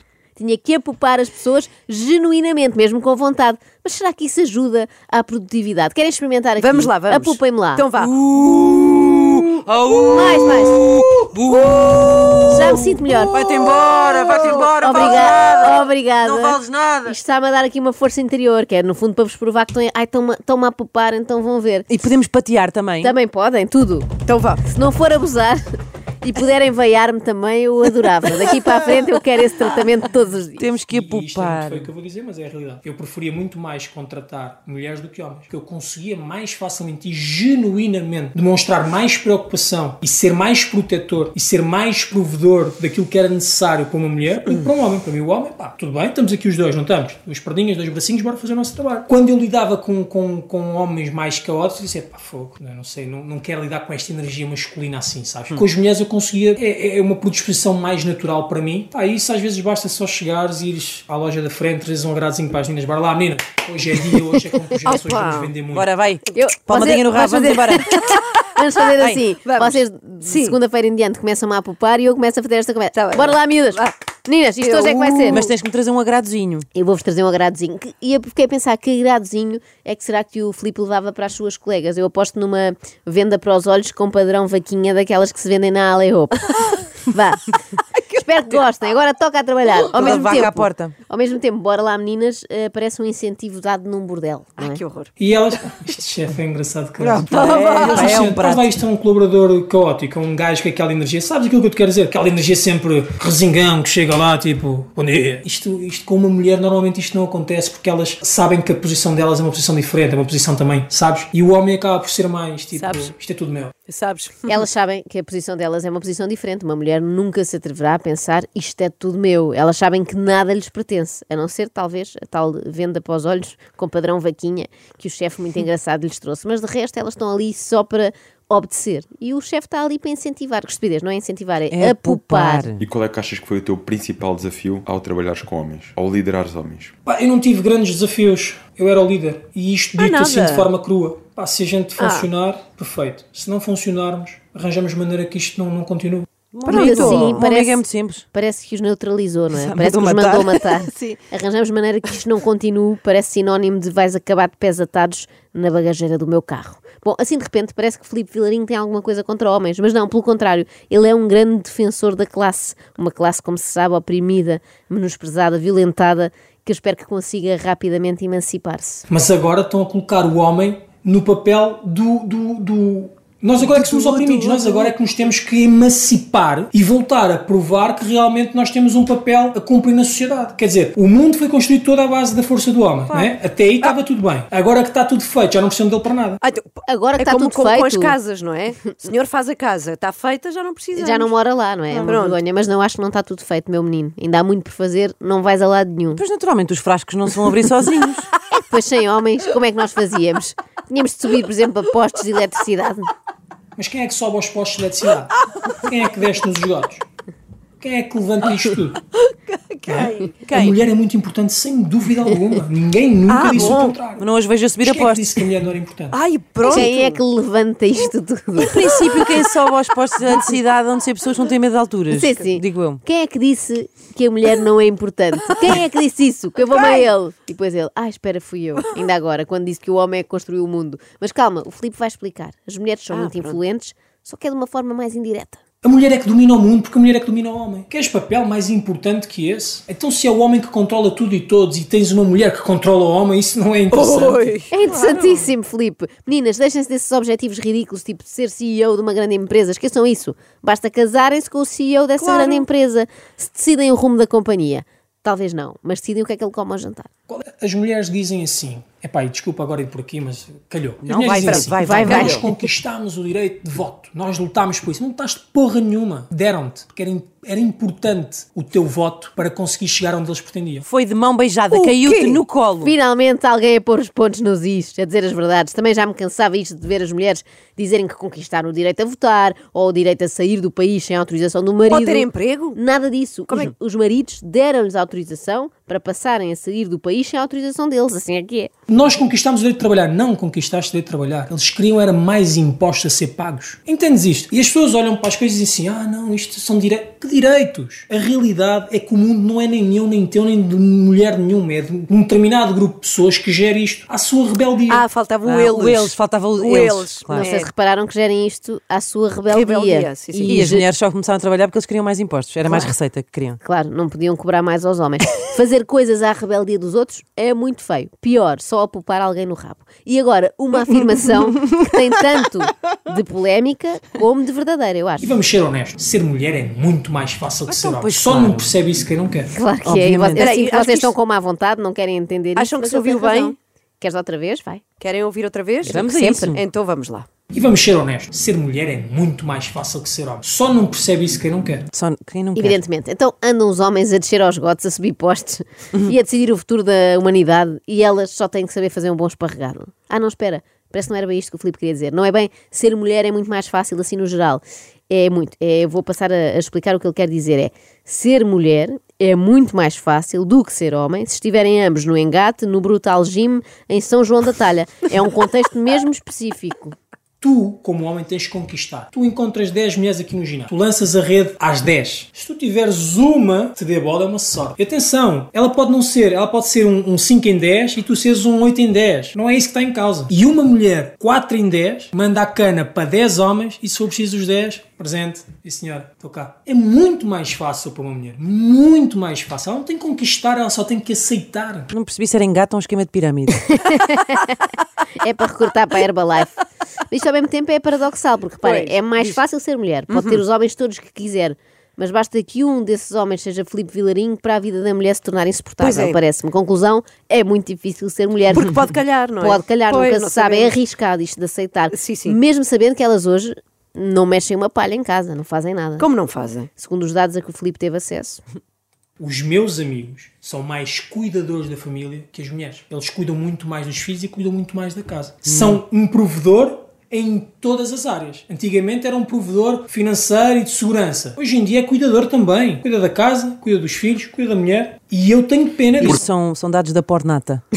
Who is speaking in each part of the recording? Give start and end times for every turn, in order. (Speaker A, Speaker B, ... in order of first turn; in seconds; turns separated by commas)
Speaker A: 0.4-7.9, Speaker B: 6.6-8.2, Speaker C: 8.0-17.2, Speaker A: 10.1-10.8, Speaker A: 12.5-13.4, Speaker A: 14.7-21.9, Speaker C: 21.9-23.1, Speaker A: 23.0-24.1, Speaker B: 24.2-24.6, Speaker A: 24.6-25.6, Speaker A: 26.2-30.7, Speaker C: 30.6-31.9, Speaker D: 30.9-65.9, Speaker B: 64.9-65.5, Speaker C: 65.7-67.9, Speaker A: 66.3-75.5, Speaker B: 69.4-70.6, Speaker B: 72.9-74.0, Speaker B: 74.6-75.5, Speaker C: 75.3-76.7, Speaker A: 76.7-87.5, Speaker A: 88.1-94.8, Speaker C: 89.9-91.0, Speaker B: 90.0-90.4, Speaker B: 94.6-95.1, Speaker D: 95.2-113.7, Speaker B: 97.0-98.2, Speaker C: 97.2-98.7, Speaker B: 112.8-113.1, Speaker B: 113.9-114.6, Speaker A: 114.5-132.7, Speaker C: 131.7-132.9, Speaker E: 132.8-136.9, Speaker D: 137.1-146.3, Speaker B: 140.0-140.7, Speaker B: 142.0-142.3, Speaker C: 146.5-148.2, Speaker A: 146.7-169.0, Speaker B: 146.7-147.5, Speaker C: 149.5-151.2, Speaker D: 169.1-186.4, Speaker C: 173.7-174.9, Speaker B: 183.1-183.9, Speaker B: 186.4-191.3, Speaker A: 186.9-188.2, Speaker A: 191.0-196.2, Speaker B: 191.9-192.4, Speaker C: 196.1-198.3, Speaker A: 198.5-203.1, Speaker D: 203.8-207.0, Speaker D: 207.8-209.0, Speaker B: 209.2-210.4, Speaker D: 209.8-214.3, Speaker C: 210.4-210.8, Speaker B: 213.3-214.0, Speaker C: 214.1-215.3, Speaker D: 214.8-216.2, Speaker B: 216.1-217.2, Speaker A: 216.6-218.8, Speaker C: 218.6-223.0, Speaker B: 218.7-219.4, Speaker A: 222.1-235.6, Speaker B: 226.8-227.0, Speaker B: 233.1-233.6, Speaker D: 235.8-244.6, Speaker B: 243.9-245.5, Speaker A: 244.7-257.1, Speaker B: 252.2-252.6, Speaker D: 257.3-270.9, Speaker C: 261.0-262.4, Speaker B: 261.4-262.5, Speaker A: 261.9-262.5, Speaker C: 270.9-272.9, Speaker B: 271.7-272.4, Speaker A: 272.8-288.7, Speaker B: 281.9-282.8, Speaker D: 288.9-305.1, Speaker B: 304.9-307.7, Speaker C: 305.4-307.5, Speaker A: 307.4-310.9, Speaker B: 309.5-310.6, Speaker C: 310.4-313.6, Speaker A: 312.7-312.9, Speaker A: 313.6-325.3, Speaker D: 325.2-329.5, Speaker C: 327.7-328.7, Speaker A: 329.5-334.8, Speaker C: 329.9-330.5, Speaker B: 330.4-331.1, Speaker B: 332.6-333.6, Speaker B: 335.0-337.3, Speaker A: 335.9-336.6, Speaker C: 335.9-336.6, Speaker D: 337.5-341.9, Speaker C: 341.9-342.8, Speaker A: 342.6-367.0, Speaker D: 367.4-391.9, Speaker C: 391.9-393.6, Speaker A: 393.7-394.6, Speaker A: 395.2-408.8, Speaker B: 398.6-399.4, Speaker B: 400.1-400.4, Speaker B: 405.8-406.2, Speaker B: 408.5-410.8, Speaker A: 409.4-416.1, Speaker B: 411.9-412.4, Speaker B: 416.0-416.7, Speaker A: 416.8-418.4, Speaker D: 419.2-436.2, Speaker C: 425.5-425.8, Speaker C: 436.0-437.6